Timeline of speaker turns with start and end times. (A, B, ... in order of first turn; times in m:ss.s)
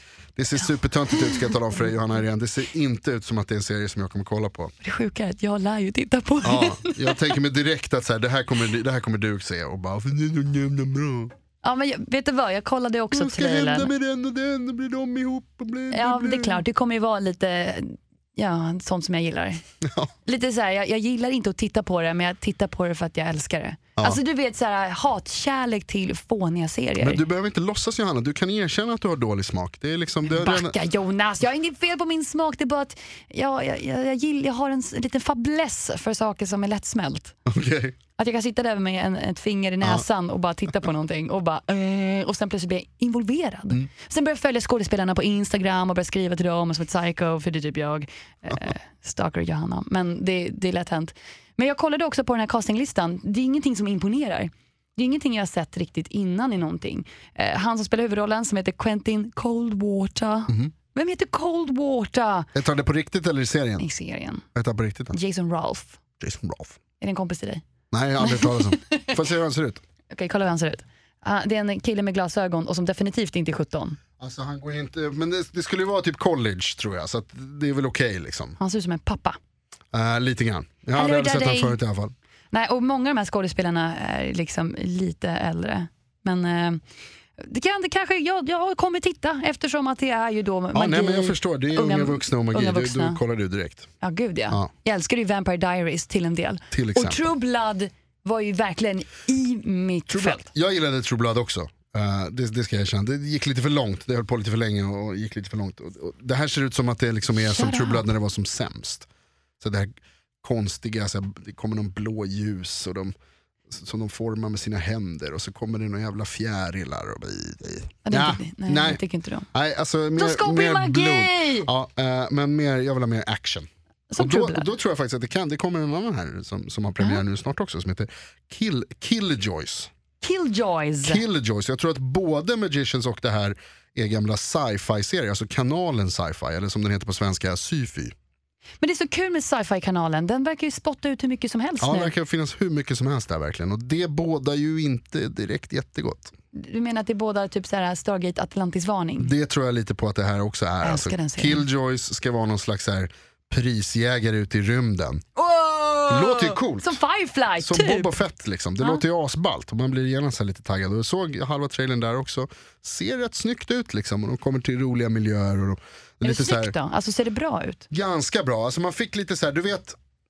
0:00.4-0:04.7 A
0:04.8-0:07.3 B
0:06.4-0:11.3 A
0:11.6-0:13.9 B
0:13.1-0:16.6 A
0:15.9-0:19.6 B
0:19.8-0:20.1 A
0:20.2-0:27.2 B
0:27.0-0:30.7 A
0:30.2-0:37.4 B
0:37.4-0:38.0 A
0:38.2-1:02.5 B
1:00.5-1:00.7 A
1:02.5-1:03.8 A
1:03.8-1:04.4 B
1:04.5-1:05.2 A
1:05.1-1:06.0 B
1:06.2-1:06.8 A
1:07.0-1:07.6 B
1:07.9-1:09.8 A
1:08.2-1:09.1 B
1:10.1-1:14.0 B
1:14.2-1:18.6 A
1:18.6-1:19.4 B
1:19.9-1:22.1 A
1:21.0-1:21.8 B
1:22.5-1:26.8 B
1:27.4-1:33.2 B
1:30.7-1:33.9 A
1:34.0-1:40.4 B
1:36.7-1:37.3 A
1:40.1-1:49.1 A
1:47.4-1:48.0 B
1:49.6-1:53.1 A
1:53.7-1:59.0 A
1:58.0-1:59.5 B
1:59.5-2:09.9 A
2:00.2-2:01.7 B
2:04.1-2:04.7 B
2:10.2-2:11.2 B
2:11.0-2:18.1 A
2:18.8-2:22.1 B
2:21.8-2:26.3 A
2:26.5-2:29.3 B
2:29.2-2:35.2 A
2:30.8-2:31.6 B
2:35.4-2:38.1 B
2:36.1-2:37.0 A
2:37.6-2:46.7 A
2:46.2-2:47.9 B
2:47.9-2:50.0 A